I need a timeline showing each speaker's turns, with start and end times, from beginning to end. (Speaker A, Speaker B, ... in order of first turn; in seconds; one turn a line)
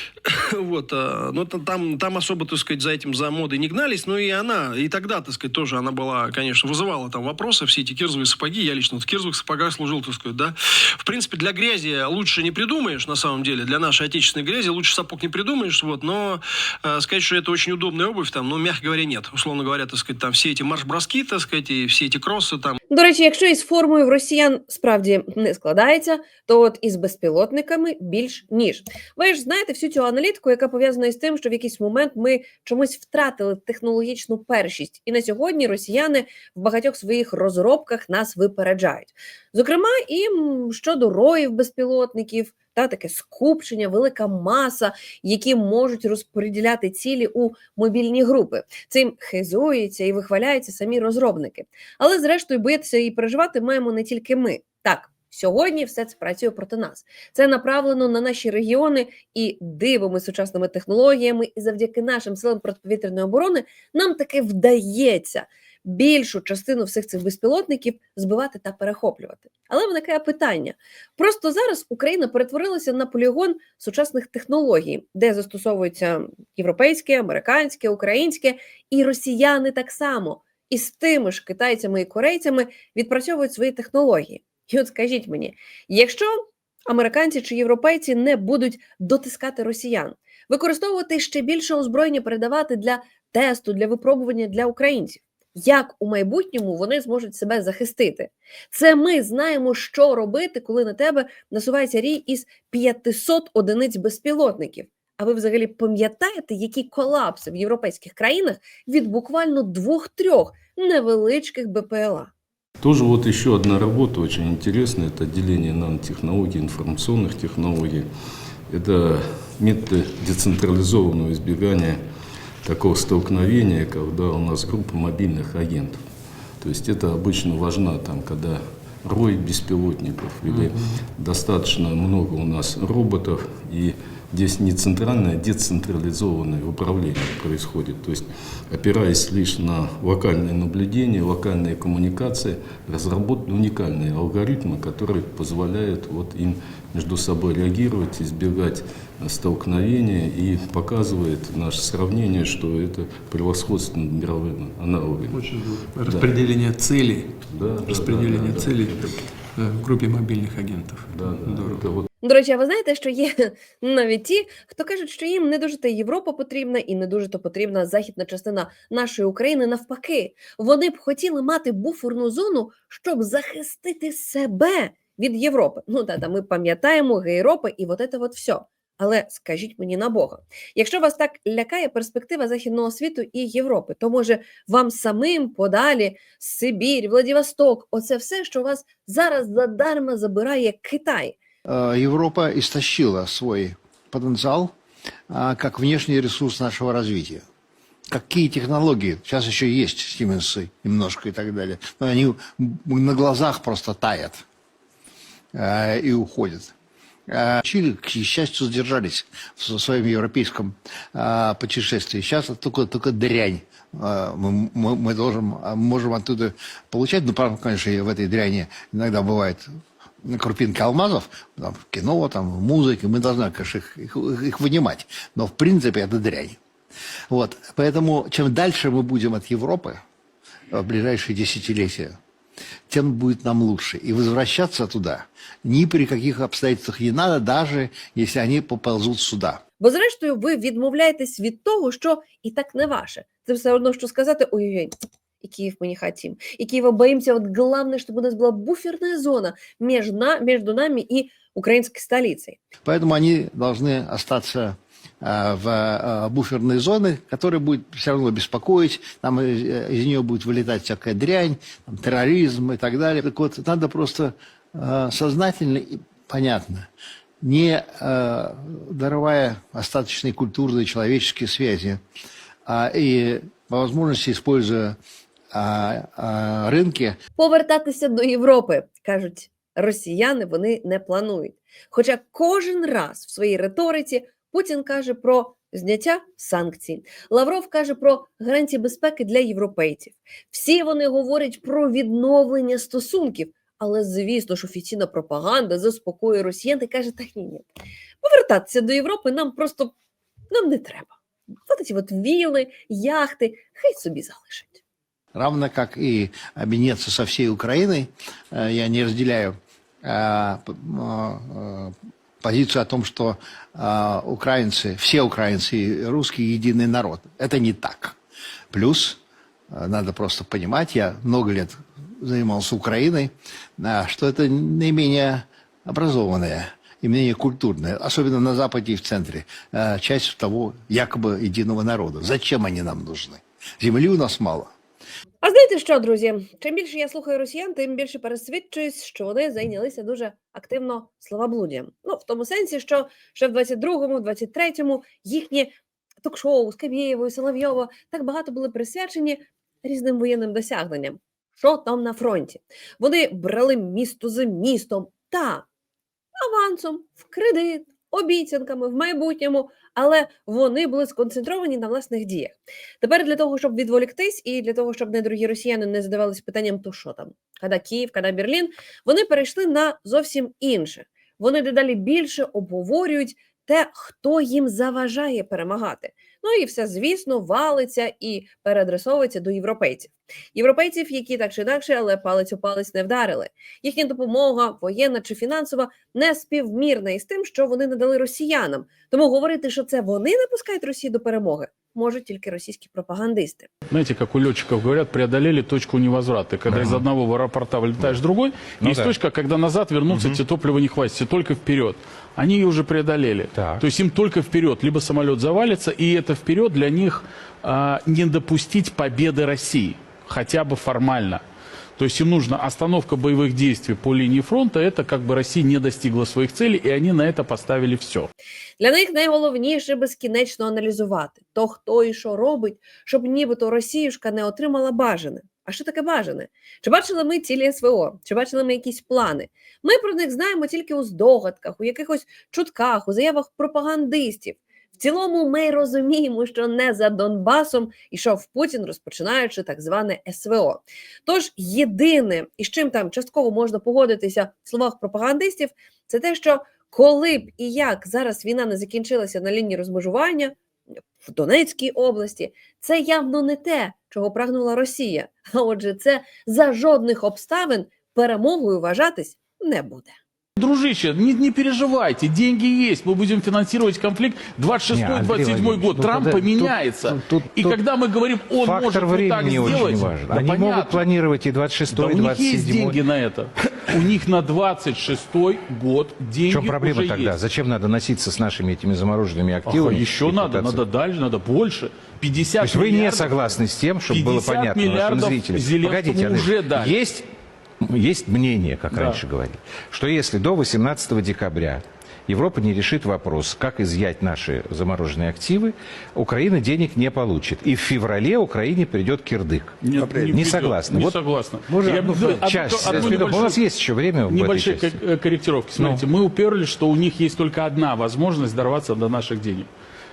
Speaker A: 0.2-22.8
Speaker B: 22.9-86.3
Speaker B: 86.9-112.3
Speaker C: 112.8-118.1
Speaker C: 118.7-122.0
Speaker C: 122.6-126.0
Speaker C: 126.6-159.4
Speaker D: 156.0-157.3
Speaker D: 158.1-158.9
Speaker D: 159.6-161.8
Speaker C: 160.9-162.1
Speaker B: 162.2-191.3
Speaker E: 191.7-194.7
Speaker E: 195.3-197.4
Speaker E: 198.1-204.4
Speaker E: 205.6-206.7
Speaker E: 207.3-219.6
Speaker E: 220.3-226.6
Speaker E: 227.3-230.0
Speaker E: 230.7-232.1
Speaker E: 232.9-239.6
Speaker F: 235.9-236.3
Speaker F: 237.9-239.0
Speaker B: 239.8-252.6
Speaker E: 252.8-266.9
Speaker E: 267.4-272.0
Speaker E: 272.7-274.9
Speaker F: 273.6-274.0
Speaker E: 275.6-277.1
Speaker B: 277.4-297.6
Speaker B: 298.2-299.9
Speaker B: 300.5-301.1
Speaker B: 301.7-304.8
Speaker E: 305.4-309.5
Speaker E: 310.1-311.9
Speaker E: 312.4-318.1
Speaker E: 318.7-319.1
Speaker E: 319.7-323.3
Speaker F: 321.0-321.3
Speaker E: 323.8-334.7
Speaker F: 328.8-329.1
Speaker F: 329.6-331.8
Speaker B: 335.4-345.7
Speaker B: 346.2-355.6
Speaker B: 356.4-393.7
Speaker G: 393.9-411.4
Speaker F: 398.8-399.1
Speaker E: 400.1-400.4
Speaker F: 403.6-403.8
Speaker G: 412.0-418.3
Speaker B: 418.8-450.6
Speaker B: 451.2-460.2
Speaker G: 460.6-471.1
Speaker F: 464.9-466.1
Speaker E: 466.0-467.8
Speaker F: 468.7-473.0
Speaker G: 471.9-477.4
Speaker F: 476.6-480.8
Speaker G: 479.6-487.0
Speaker F: 482.6-487.2
Speaker F: 487.8-499.8
Speaker G: 488.9-489.2
Speaker G: 499.8-503.6
Speaker F: 500.3-501.1
Speaker F: 501.7-504.9
Speaker E: 502.1-503.4
Speaker G: 504.2-509.7